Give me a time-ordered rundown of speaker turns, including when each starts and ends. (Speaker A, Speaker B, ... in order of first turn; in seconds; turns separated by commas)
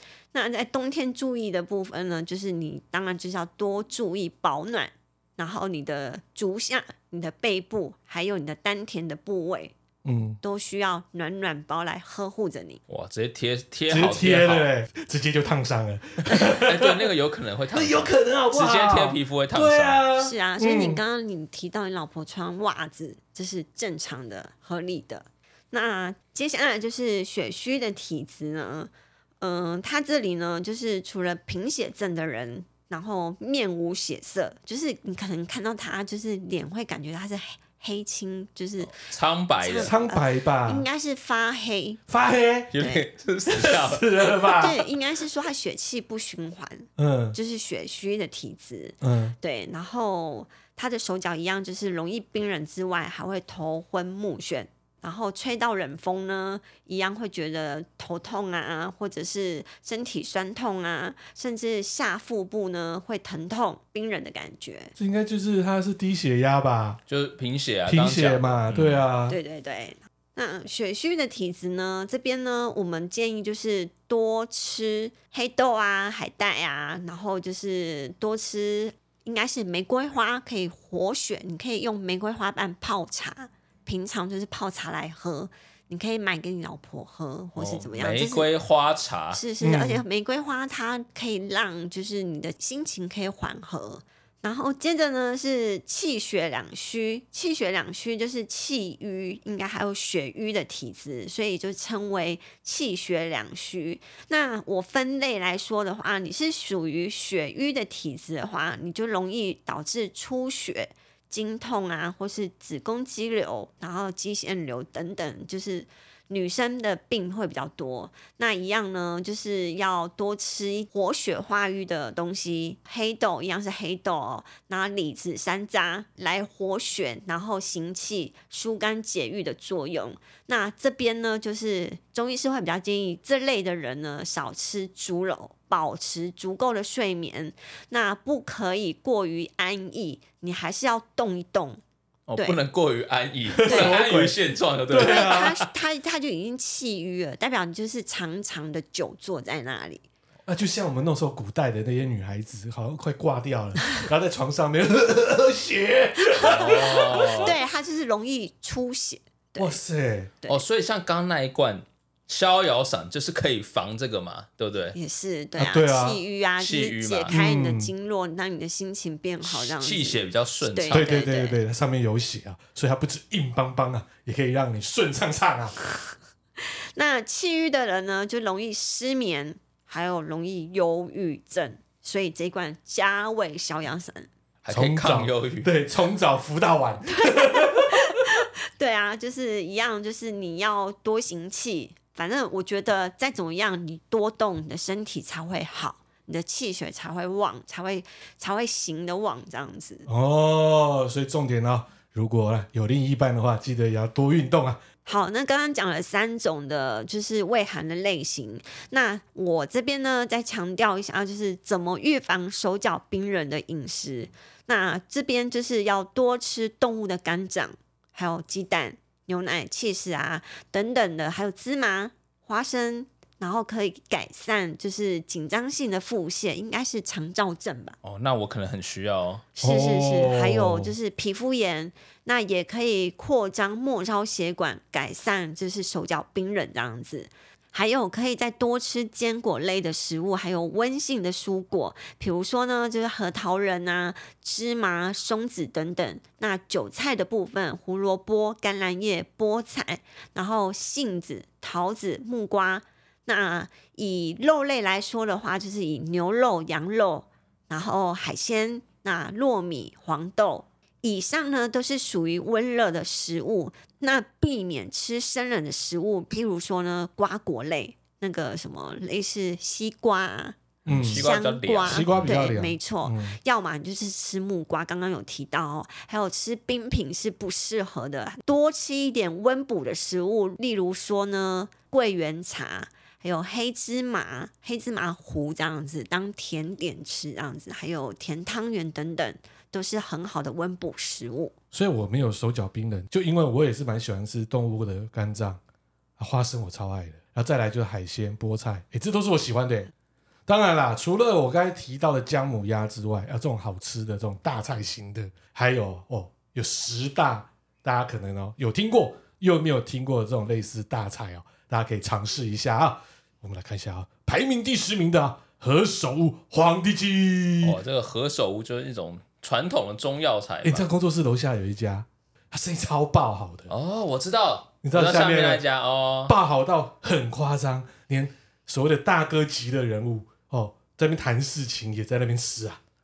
Speaker A: 0.3-9.7, Speaker B: 10.0-10.4, Speaker A: 10.4-12.8, Speaker C: 12.9-14.7, Speaker B: 13.9-17.1, Speaker C: 16.3-20.0, Speaker B: 17.7-21.0, Speaker A: 20.2-38.9, Speaker C: 38.8-39.9, Speaker A: 39.6-42.0, Speaker B: 39.8-40.9, Speaker B: 42.1-42.7, Speaker C: 42.7-44.1, Speaker A: 42.8-43.0, Speaker B: 43.5-44.8, Speaker A: 44.5-64.9, Speaker B: 47.0-47.4, Speaker B: 49.0-49.4, Speaker B: 65.0-67.0, Speaker C: 67.1-69.0, Speaker B: 67.9-69.4, Speaker A: 69.3-88.5, Speaker C: 87.5-89.4, Speaker A: 89.3-141.8, Speaker B: 89.6-90.0, Speaker C: 142.3-145.7, Speaker B: 143.6-144.4, Speaker A: 143.6-143.9, Speaker B: 144.9-145.6, Speaker A: 144.9-150.0, Speaker B: 150.4-157.5, Speaker A: 156.2-159.8, Speaker C: 156.4-157.6, Speaker B: 159.6-160.3, Speaker C: 160.5-164.9, Speaker A: 164.9-171.6, Speaker B: 165.6-166.2, Speaker C: 166.6-167.3, Speaker B: 167.3-167.9, Speaker C: 169.4-171.2, Speaker B: 170.9-175.7, Speaker A: 176.6-184.3, Speaker C: 184.6-185.7, Speaker B: 184.7-188.1, Speaker A: 187.1-200.1, Speaker B: 200.1-204.8, Speaker A: 205.1-227.9, Speaker C: 228.0-229.5, Speaker A: 229.6-291.5, Speaker B: 229.6-230.9, Speaker B: 270.9-271.3, Speaker C: 270.9-272.5, Speaker B: 271.8-273.4, Speaker B: 291.7-295.6, Speaker B: 296.2-299.9, Speaker B: 300.5-317.8, Speaker C: 317.6-320.9, Speaker B: 320.6-323.7, Speaker C: 323.7-326.3, Speaker B: 324.8-325.6, Speaker B: 326.2-332.8